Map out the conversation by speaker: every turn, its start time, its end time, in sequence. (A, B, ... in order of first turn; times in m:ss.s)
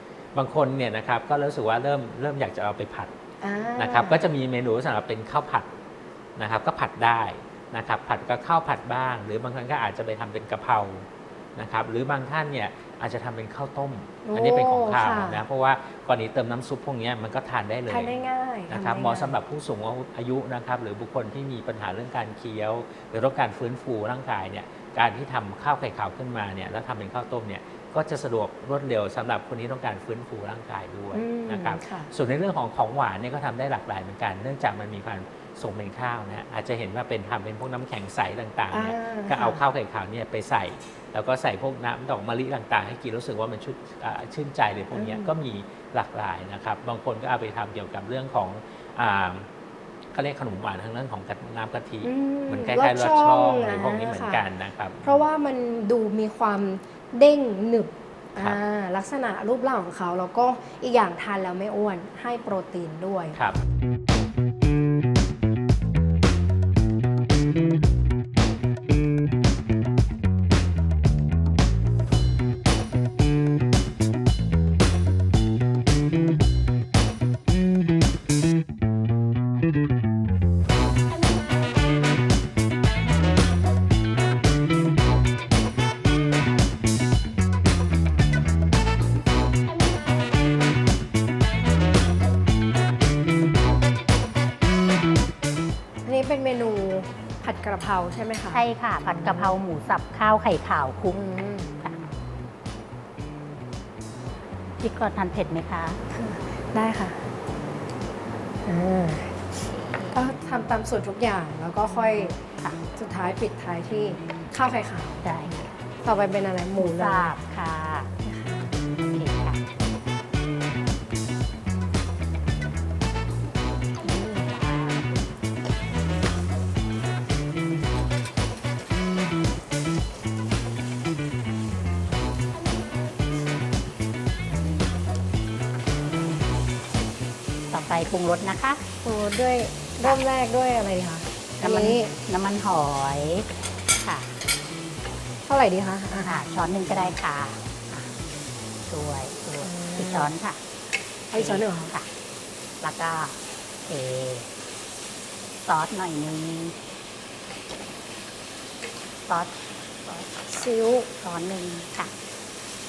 0:00.3-0:03.2 A
0:03.4-0:04.2 B
0:03.8-0:05.7 A
0:06.4-0:18.1 A
0:14.2-0:15.4 B
0:17.9-0:19.4 B
0:18.7-0:49.5 A
0:31.1-0:32.1 B
0:38.7-0:39.6 B
0:44.9-0:45.3 B
0:50.1-0:55.2 A
0:52.0-0:54.4 B
0:55.0-1:03.4 B
1:03.4-1:03.6 A
1:36.1-1:38.6 B
1:38.5-1:41.3 C
1:39.2-1:39.5 B
1:41.1-1:41.8 B
1:44.8-1:46.0 C
1:46.1-1:47.2 B
1:48.7-1:49.4 B
1:50.1-1:52.4 B
1:52.9-1:55.2 B
1:55.2-1:55.7 C
1:56.0-1:57.3 B
1:56.8-1:58.1 C
1:58.2-1:58.8 B
1:59.1-1:59.7 C
2:04.0-2:05.0 C
2:17.7-2:18.8 C
2:19.0-2:22.1 B
2:21.6-2:23.5 C
2:24.0-2:24.3 C
2:25.5-2:26.4 B
2:26.2-2:28.2 C
2:28.9-2:30.6 C
2:29.6-2:30.3 B
2:31.3-2:31.9 B
2:31.4-2:32.1 C
2:32.8-2:34.5 C
2:35.7-2:36.8 C
2:39.3-2:40.3 C
2:40.5-2:41.1 B
2:41.2-2:42.1 C